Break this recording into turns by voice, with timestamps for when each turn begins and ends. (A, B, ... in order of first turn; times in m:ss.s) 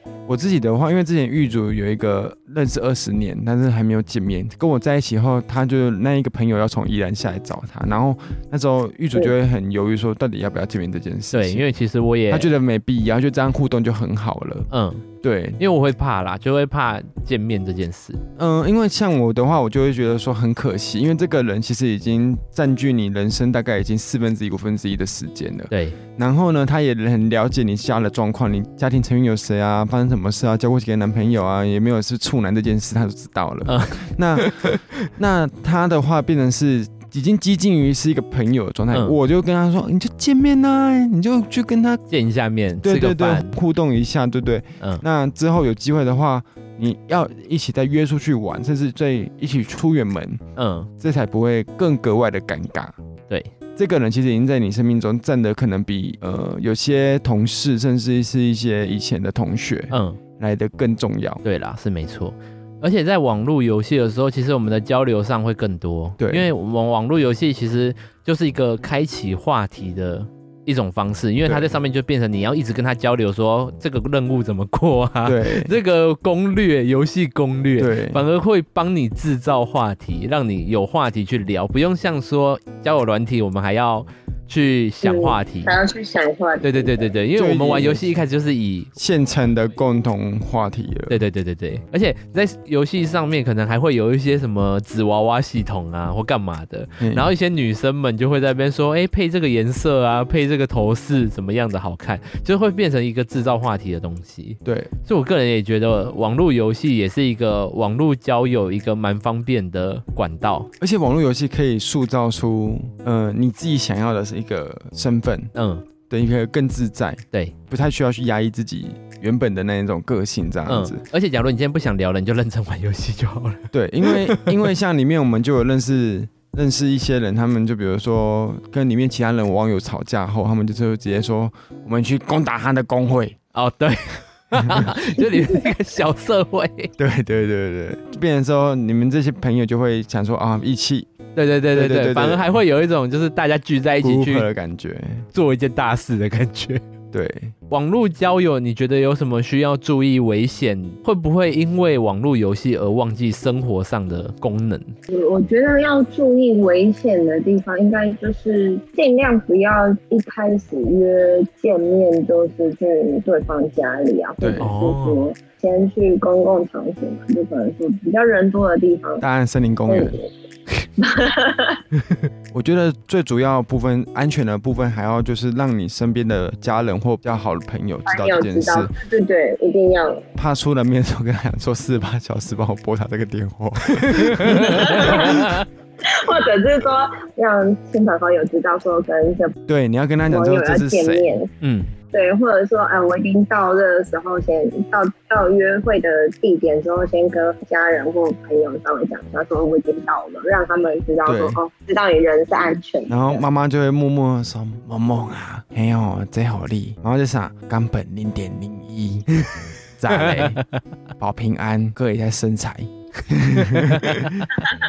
0:00.3-0:11.6 A
0:11.3-0:12.5 B
0:12.3-0:14.7 A
0:14.7-0:15.0 B
0:15.2-0:15.6 A
0:15.6-0:18.2 B
0:18.4-0:42.0 A
0:25.7-0:26.0 B
0:33.7-0:34.8 B
0:38.9-0:39.2 B
0:42.1-0:43.6 B
0:42.8-0:50.4 A
0:50.6-0:50.9 B
0:51.0-0:53.0 A
0:53.8-1:01.4 A
0:59.9-1:00.2 B
1:01.4-1:25.7 B
1:06.2-1:06.5 A
1:11.5-1:11.8 A
1:15.2-1:15.7 A
1:17.8-1:18.2 A
1:25.0-1:27.1 C
1:26.6-1:28.9 B
1:27.4-1:28.2 A
1:29.0-1:31.2 A
1:31.1-1:50.7 B
1:37.0-1:37.3 A
1:44.6-1:44.9 A
1:50.8-1:55.5 A
1:55.6-1:55.8 B
1:56.1-2:01.0 A
2:00.7-2:04.6 B
2:03.7-2:13.4 A
2:13.5-2:16.9 B
2:14.6-2:15.0 A
2:17.0-2:21.1 A
2:21.4-2:24.5 B
2:21.7-2:22.6 A
2:24.0-2:25.3 A
2:25.3-2:26.8 B
2:27.1-2:27.5 A
2:27.7-2:34.9 B
2:35.1-2:49.2 C
2:44.4-2:44.7 A
2:44.6-2:45.2 B
2:49.2-2:50.2 A
2:49.9-2:50.3 C
2:51.0-2:51.8 C
2:52.5-2:58.9 A
2:58.1-3:00.3 C
3:00.4-3:05.5 A
3:03.9-3:05.7 B
3:04.8-3:05.5 C
3:06.0-3:09.6 C
3:09.7-3:11.4 A
3:10.3-3:11.5 C
3:11.6-3:11.9 B
3:12.1-3:23.4 C
3:21.2-3:21.6 A
3:23.1-3:29.3 A
3:29.4-3:30.8 B
3:30.0-3:30.6 A
3:31.2-3:34.4 A
3:33.5-3:34.6 B